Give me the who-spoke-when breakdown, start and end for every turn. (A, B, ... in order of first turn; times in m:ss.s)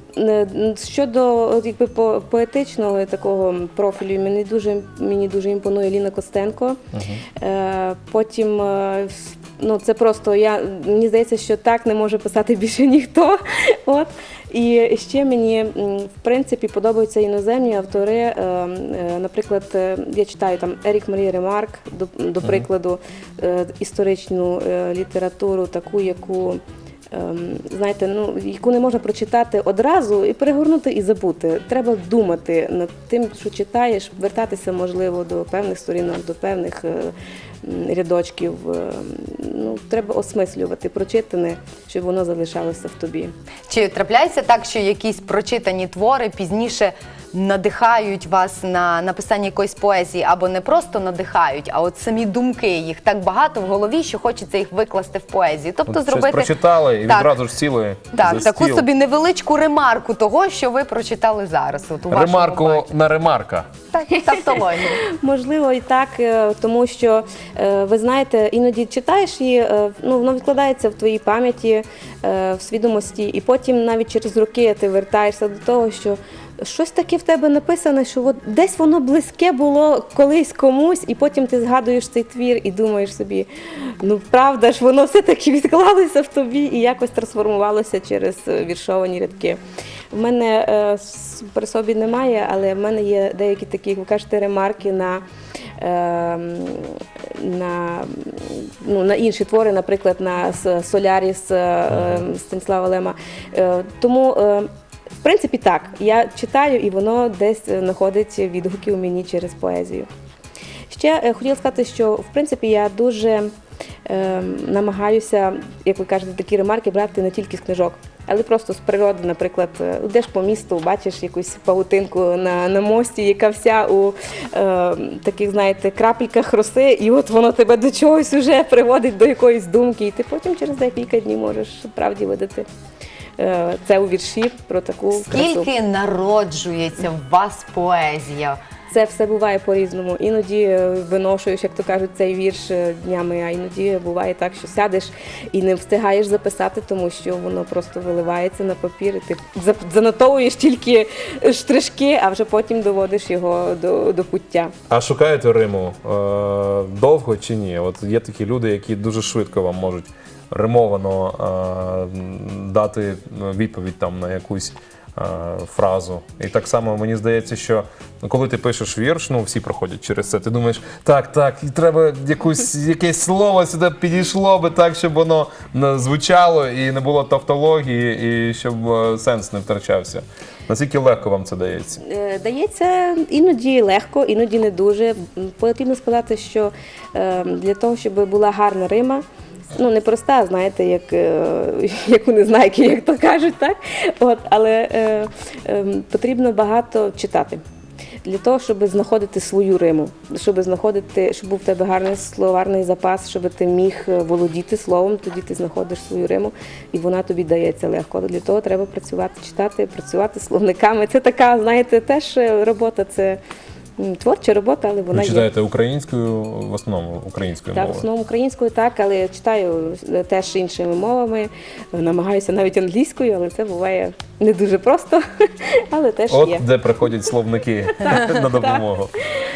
0:00.2-0:06.8 A
0:06.9-0:07.2 B
0:07.4-0:26.6 A
0:27.1-0:37.1 A
0:37.6-0:43.3 A
0:43.7-0:57.3 C
0:55.9-0:58.9 B
0:58.1-1:02.9 C
1:02.1-1:03.7 B
1:03.9-1:05.0 C
1:05.2-1:23.5 A
1:24.0-1:29.6 A
1:30.1-1:35.2 A
1:35.8-1:44.7 A
1:41.9-1:42.2 B
1:45.2-1:50.1 A
1:50.9-1:53.5 A
1:54.1-2:12.6 A
2:13.4-2:15.7 A
2:15.1-2:18.6 C
2:18.9-2:34.7 A
2:34.9-3:02.0 B
3:02.0-3:17.6 A
3:18.2-3:33.4 A
3:34.0-3:35.5 A
3:35.1-3:38.1 B
3:37.7-3:45.2 A
3:45.9-3:46.6 A
3:46.3-3:49.1 B
3:48.0-3:48.8 A